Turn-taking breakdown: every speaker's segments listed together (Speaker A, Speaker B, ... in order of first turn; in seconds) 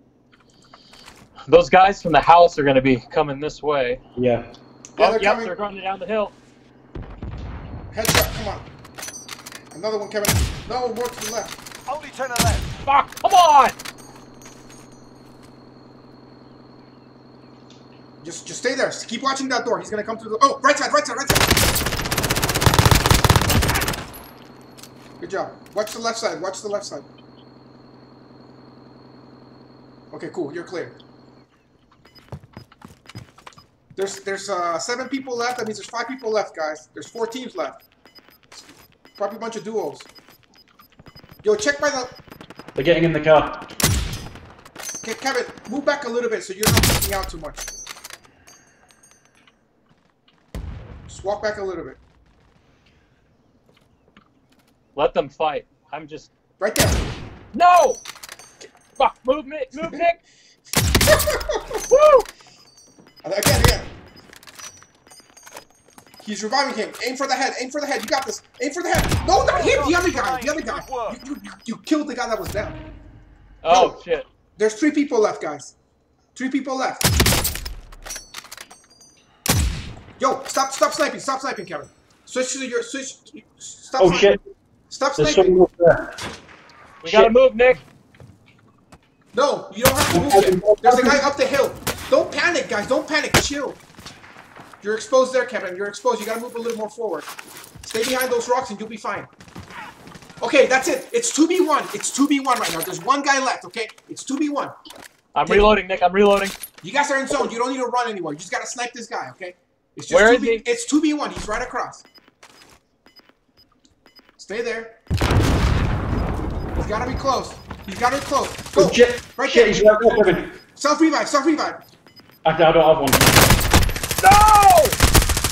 Speaker A: 1.5-4.0, 5.0-6.3, 12.8-13.8, 55.0-56.3, 57.5-58.0, 59.0-60.2, 61.9-62.3, 73.6-74.3, 87.0-87.8, 105.3-106.5, 110.1-110.6, 124.2-125.0
Speaker B: 4.2-4.5, 42.8-43.7, 84.0-84.4, 85.2-86.1, 87.0-87.3, 90.1-91.2, 118.8-120.5, 122.5-123.3
Speaker C: 5.0-5.5, 7.9-8.7, 9.7-11.6, 18.2-21.5, 25.2-27.1, 30.1-31.0, 34.0-37.8, 39.2-40.1, 41.4-42.1, 45.0-47.6, 51.1-52.0, 56.6-57.1, 61.1-61.8, 63.2-63.9, 66.2-72.8, 73.7-74.0, 74.6-75.8, 76.3-77.1, 80.2-84.3, 84.9-85.5, 89.3-93.8, 94.8-97.3, 97.8-99.3, 100.4-104.8, 105.5-105.7, 106.8-112.0, 114.4-115.0, 116.8-121.8
Speaker D: 11.9-12.7, 69.2-71.2